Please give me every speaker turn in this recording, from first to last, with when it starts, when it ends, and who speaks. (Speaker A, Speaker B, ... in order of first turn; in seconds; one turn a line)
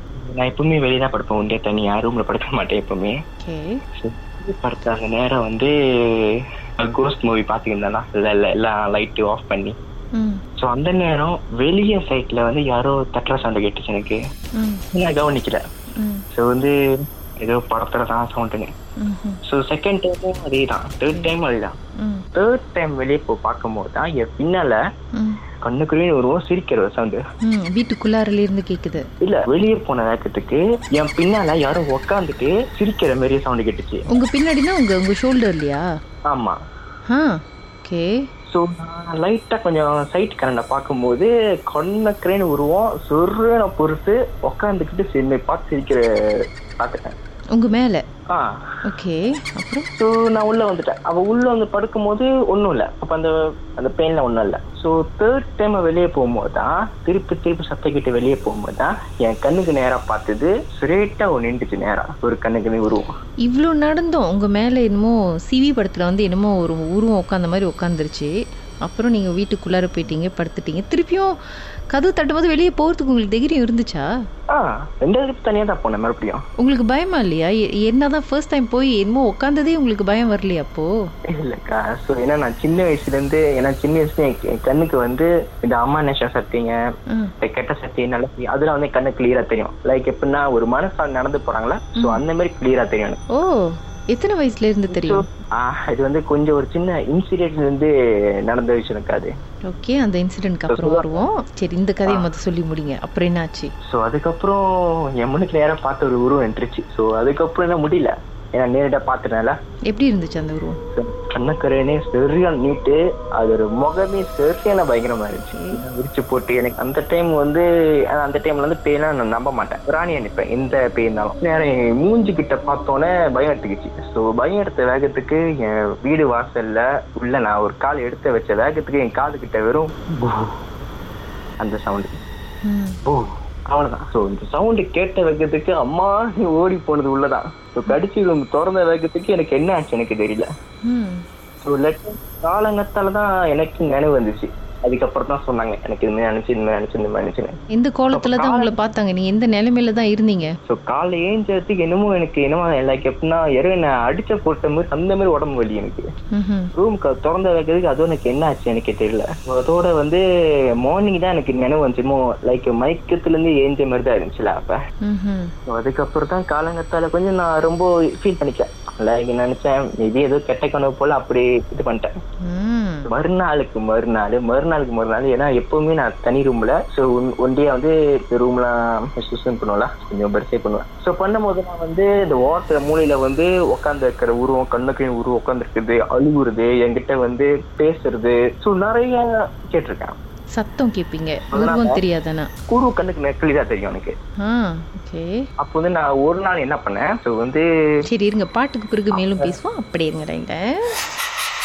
Speaker A: 0.2-3.1
Speaker B: 3.4-3.7
Speaker A: 4.0-9.7
Speaker B: 10.1-10.4
Speaker A: 10.6-14.2
Speaker B: 14.6-14.8
Speaker A: 14.9-15.6
Speaker B: 16.0-16.2
Speaker A: 16.3-16.7
Speaker A: 17.4-18.7
Speaker B: 19.0-19.4
Speaker A: 19.4-21.7
Speaker B: 22.0-22.2
Speaker A: 22.3-24.8
Speaker B: 25.1-25.4
Speaker A: 25.6-27.2
Speaker B: 27.4-29.0
Speaker A: 29.2-34.0
Speaker B: 34.1-35.8
Speaker A: 36.3-36.6
Speaker B: 37.1-38.1
Speaker A: 38.5-46.0
Speaker A: 46.8-47.1
Speaker B: 47.5-48.0
Speaker B: 48.8-49.9
Speaker A: 50.0-63.1
Speaker B: 63.4-68.3
Speaker B: 68.8-71.3
Speaker B: 71.9-74.1
Speaker A: 74.5-76.4
Speaker B: 76.6-80.9
Speaker A: 81.3-86.8
Speaker A: 87.4-93.2
Speaker B: 92.0-92.2
Speaker B: 93.3-95.2
Speaker A: 94.9-97.9
Speaker A: 98.5-99.3
Speaker B: 99.7-103.7
Speaker A: 100.7-101.2
Speaker A: 103.8-104.6
Speaker A: 105.2-109.5
Speaker B: 109.9-110.8
Speaker A: 110.9-130.5
Speaker B: 115.5-115.8
Speaker A: 131.6-132.1
Speaker B: 132.6-133.0
Speaker A: 133.1-140.5
Speaker B: 140.9-141.2
Speaker A: 141.6-147.5
Speaker B: 147.7-150.5
Speaker A: 148.1-148.8
Speaker A: 150.7-156.0
Speaker B: 156.3-156.7
Speaker A: 156.8-160.2
Speaker A: 160.8-164.8
Speaker B: 165.0-165.5
Speaker A: 165.7-172.1
Speaker B: 172.4-173.1
Speaker A: 173.1-190.1
Speaker B: 190.5-192.5
Speaker A: 191.5-192.0
Speaker A: 192.7-194.1
Speaker B: 194.4-195.3
Speaker A: 195.6-197.6
Speaker B: 198.1-200.8
Speaker A: 199.1-199.5